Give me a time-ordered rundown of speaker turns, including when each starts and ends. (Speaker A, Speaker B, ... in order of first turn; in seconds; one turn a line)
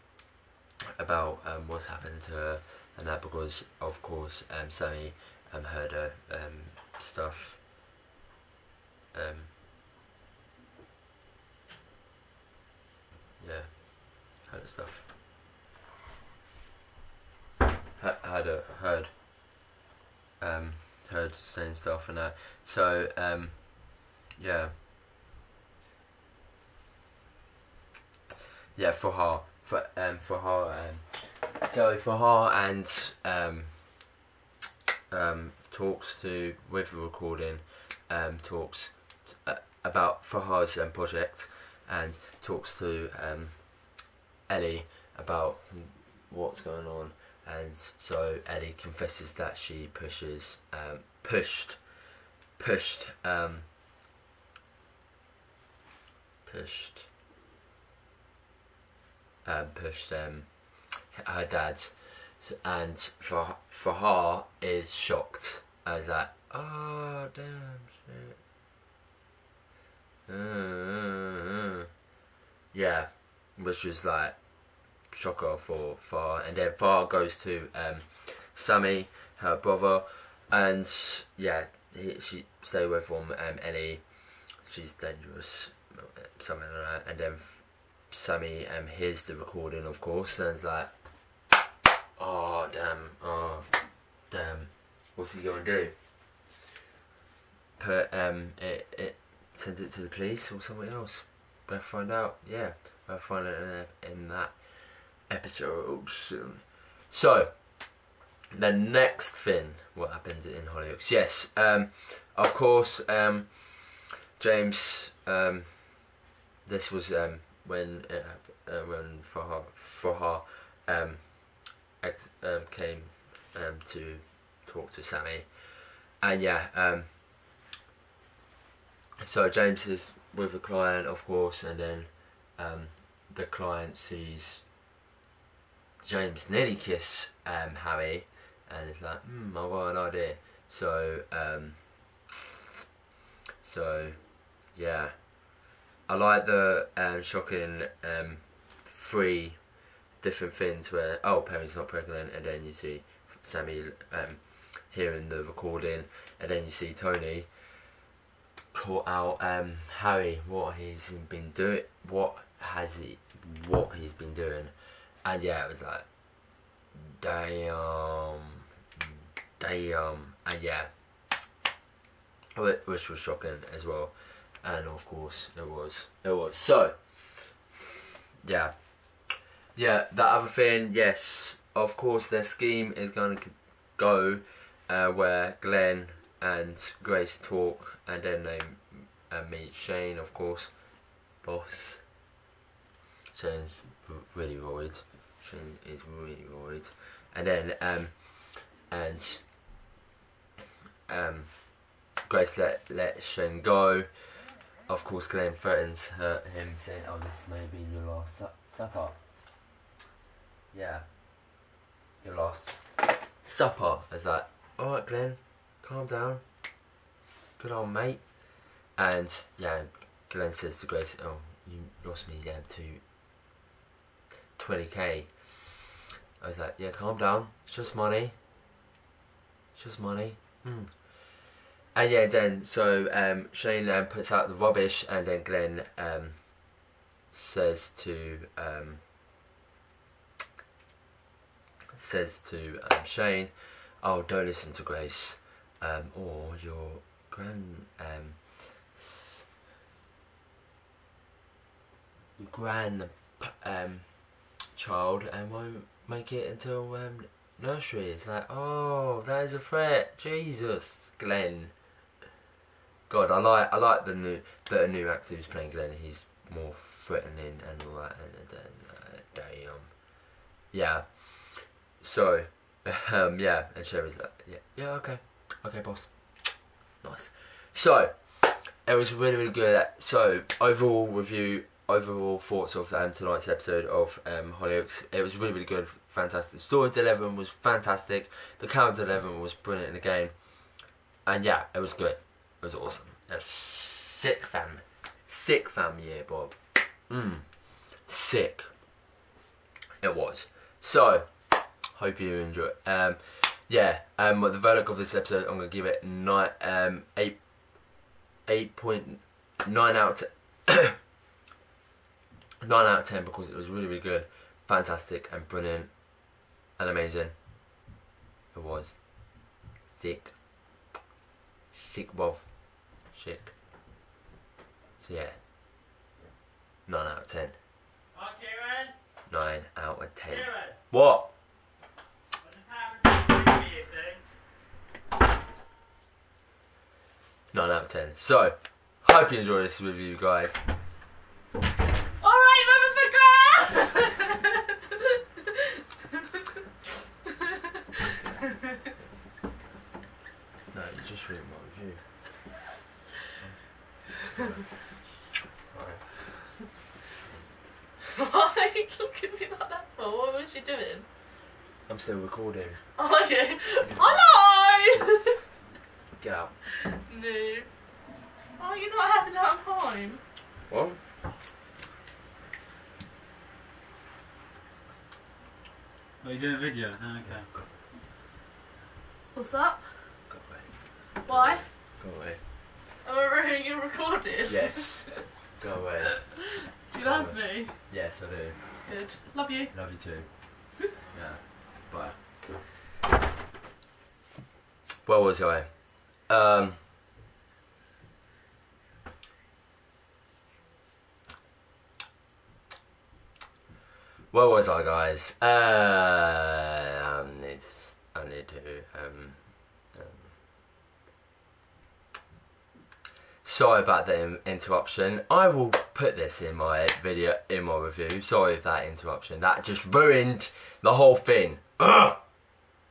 Speaker A: 1.0-7.6
Speaker A: 9.1-9.5
Speaker A: 13.4-15.1
Speaker A: 18.0-19.2
Speaker A: 20.4-24.7
Speaker A: 28.8-34.1
Speaker A: 35.1-52.1
Speaker A: 52.6-53.7
Speaker A: 56.4-57.1
Speaker A: 59.5-68.4
Speaker A: 70.3-71.5
Speaker A: 72.7-74.4
Speaker A: 75.0-90.9
Speaker A: 92.2-96.0
Speaker A: 97.8-108.0
Speaker A: 108.5-127.1
Speaker A: 129.2-134.7
Speaker A: 136.0-142.4
Speaker A: 143.6-145.5
Speaker A: 146.1-157.5
Speaker A: 158.7-164.7
Speaker A: 165.2-166.1
Speaker A: 166.9-170.9
Speaker A: 172.6-177.6
Speaker A: 178.4-179.2
Speaker A: 179.8-192.1
Speaker A: 193.3-199.5
Speaker A: 201.1-209.2
Speaker A: 210.7-211.1
Speaker A: 212.2-216.4
Speaker A: 217.6-223.0
Speaker A: 224.6-225.7
Speaker A: 226.4-228.3
Speaker A: 229.8-231.3
Speaker A: 231.9-239.0
Speaker A: 241.9-249.5
Speaker A: 252.4-261.7
Speaker A: 263.1-270.0
Speaker A: 270.7-298.7
Speaker A: 300.0-307.6
Speaker A: 308.5-311.0
Speaker A: 312.6-317.4
Speaker A: 318.5-320.4
Speaker A: 321.7-323.6
Speaker A: 325.0-325.4
Speaker A: 326.9-327.6
Speaker B: 328.1-328.9
Speaker A: 329.3-331.3
Speaker B: 333.1-334.2
Speaker A: 337.5-340.6
Speaker C: 342.2-345.8
Speaker C: 347.4-347.7
Speaker A: 350.7-352.0
Speaker A: 354.3-354.7
Speaker A: 355.7-356.4
Speaker C: 358.1-361.1
Speaker A: 361.9-362.8
Speaker C: 363.0-365.4
Speaker A: 363.8-364.1
Speaker A: 366.1-366.6
Speaker C: 366.8-367.7
Speaker C: 368.6-370.2
Speaker A: 370.7-371.0
Speaker B: 376.2-377.5
Speaker A: 377.2-377.7
Speaker C: 379.4-379.8
Speaker A: 380.3-382.4
Speaker C: 381.2-381.6
Speaker C: 383.0-385.2
Speaker A: 384.5-386.4
Speaker C: 386.4-387.7
Speaker A: 387.0-388.8
Speaker C: 388.9-389.7
Speaker A: 389.7-390.3
Speaker A: 391.1-392.2
Speaker A: 395.1-396.8
Speaker A: 404.3-410.4
Speaker A: 413.4-422.2